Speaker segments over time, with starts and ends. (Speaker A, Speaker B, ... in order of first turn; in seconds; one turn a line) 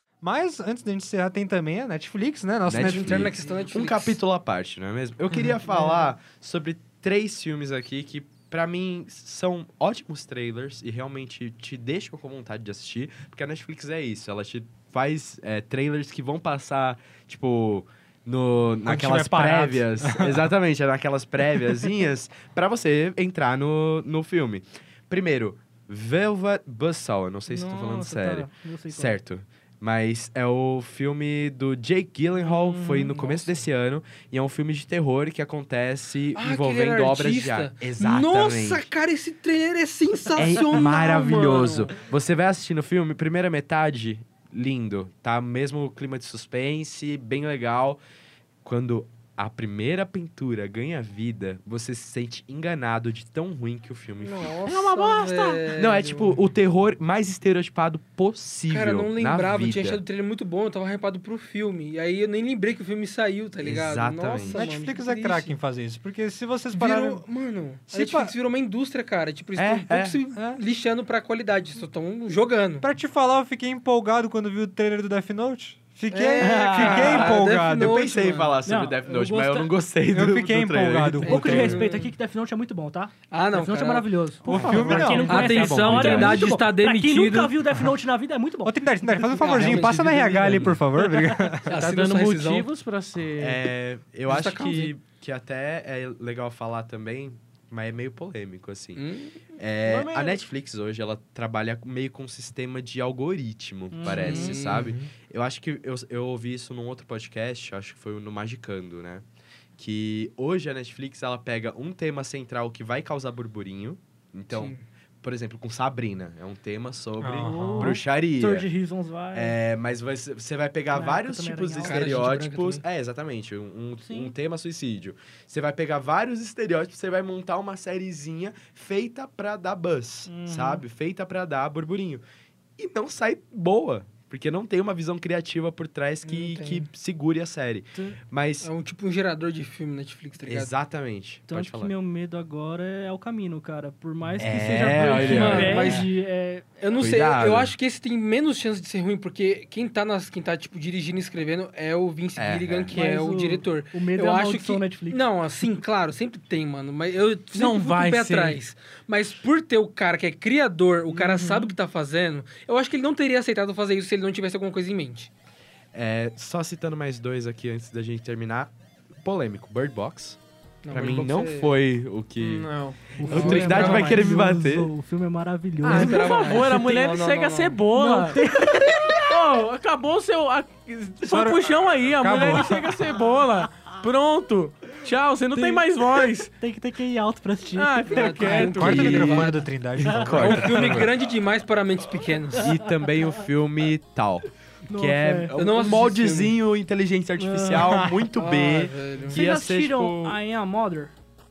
Speaker A: 0.2-3.4
Speaker B: 2.7-38.9
Speaker C: 2.8-4.2
Speaker A: 18.9-20.4
Speaker D: 27.5-29.2
Speaker C: 32.5-33.5
Speaker C: 36.4-41.9
Speaker B: 40.4-48.0
Speaker B: 48.6-60.0
Speaker C: 54.2-56.4
Speaker C: 58.7-65.6
Speaker B: 63.6-64.7
Speaker A: 64.5-67.2
Speaker C: 66.7-72.9
Speaker A: 67.9-68.3
Speaker B: 69.6-70.2
Speaker A: 70.3-70.6
Speaker A: 72.8-78.0
Speaker C: 76.1-78.6
Speaker B: 76.5-81.7
Speaker D: 76.5-77.0
Speaker D: 78.7-79.7
Speaker A: 80.1-81.8
Speaker D: 81.2-88.8
Speaker C: 81.3-82.1
Speaker C: 83.3-84.1
Speaker A: 84.5-86.5
Speaker E: 84.5-85.3
Speaker C: 85.2-87.5
Speaker B: 85.5-86.3
Speaker A: 88.6-91.7
Speaker C: 89.3-90.8
Speaker E: 91.7-93.7
Speaker C: 91.7-92.7
Speaker B: 93.4-99.0
Speaker C: 94.3-94.9
Speaker C: 99.0-99.4
Speaker B: 99.6-109.2
Speaker E: 99.8-100.4
Speaker D: 103.9-104.6
Speaker C: 104.0-104.9
Speaker B: 109.8-118.7
Speaker C: 114.5-114.8
Speaker A: 117.2-118.0
Speaker D: 117.4-119.6
Speaker B: 119.3-132.2
Speaker D: 120.9-122.2
Speaker C: 121.8-122.8
Speaker D: 124.0-124.3
Speaker D: 130.3-130.8
Speaker B: 132.8-138.7
Speaker C: 136.2-136.9
Speaker C: 138.6-140.7
Speaker B: 140.4-141.9
Speaker D: 141.5-146.8
Speaker B: 144.4-146.1
Speaker C: 145.0-146.1
Speaker C: 146.8-165.3
Speaker B: 147.0-147.7
Speaker B: 152.4-153.0
Speaker D: 152.9-155.2
Speaker E: 157.5-158.6
Speaker E: 161.1-161.8
Speaker B: 165.9-170.4
Speaker C: 170.8-171.8
Speaker B: 170.9-174.9
Speaker E: 172.4-173.2
Speaker D: 173.2-176.6
Speaker C: 173.3-174.2
Speaker E: 175.8-186.5
Speaker C: 175.9-177.8
Speaker D: 177.9-179.2
Speaker A: 181.3-183.0
Speaker D: 182.4-182.7
Speaker D: 185.5-185.9
Speaker D: 186.5-188.7
Speaker E: 187.8-189.3
Speaker C: 188.1-189.7
Speaker A: 188.5-190.9
Speaker B: 188.7-191.1
Speaker D: 190.1-190.3
Speaker C: 190.4-192.8
Speaker B: 192.6-200.4
Speaker D: 194.9-195.6
Speaker C: 195.6-196.6
Speaker D: 197.4-198.0
Speaker A: 197.8-198.2
Speaker C: 198.4-199.4
Speaker D: 199.3-201.1